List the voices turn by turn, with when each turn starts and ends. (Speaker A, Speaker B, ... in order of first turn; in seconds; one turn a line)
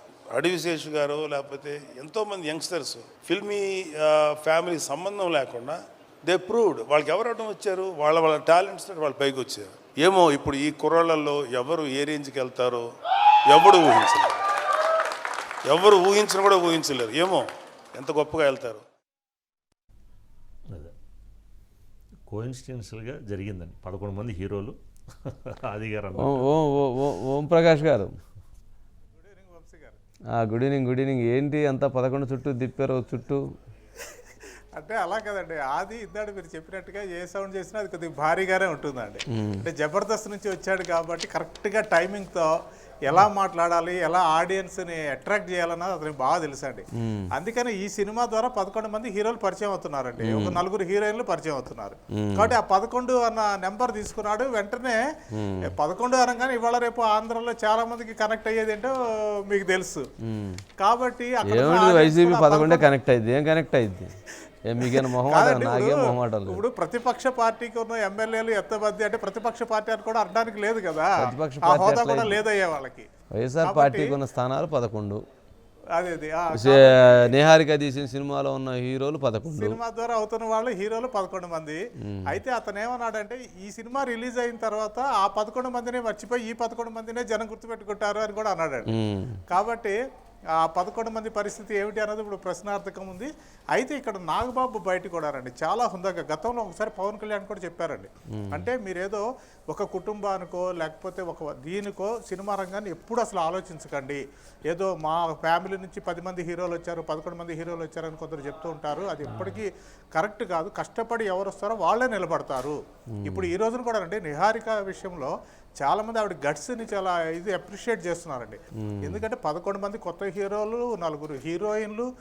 Speaker A: 0.3-12.9
Speaker A: 13.5-14.4
Speaker A: 15.7-18.8
Speaker B: 22.3-26.5
Speaker C: 26.2-28.1
Speaker D: 29.2-30.0
Speaker C: 30.3-33.4
Speaker D: 34.7-42.5
Speaker C: 39.3-39.6
Speaker D: 43.0-55.0
Speaker C: 47.0-47.3
Speaker C: 50.2-50.6
Speaker C: 52.1-52.5
Speaker C: 55.3-55.7
Speaker D: 55.7-60.1
Speaker C: 60.2-60.6
Speaker D: 60.8-62.9
Speaker C: 61.5-64.1
Speaker C: 64.7-66.6
Speaker D: 64.8-73.1
Speaker C: 71.2-72.4
Speaker C: 73.3-75.2
Speaker D: 73.6-74.2
Speaker D: 75.9-77.4
Speaker C: 76.5-79.8
Speaker D: 79.5-88.9
Speaker C: 82.1-82.4
Speaker C: 88.9-89.4
Speaker D: 89.5-89.9
Speaker D: 90.6-122.1
Speaker C: 98.3-98.6
Speaker C: 113.1-113.5
Speaker C: 118.8-119.2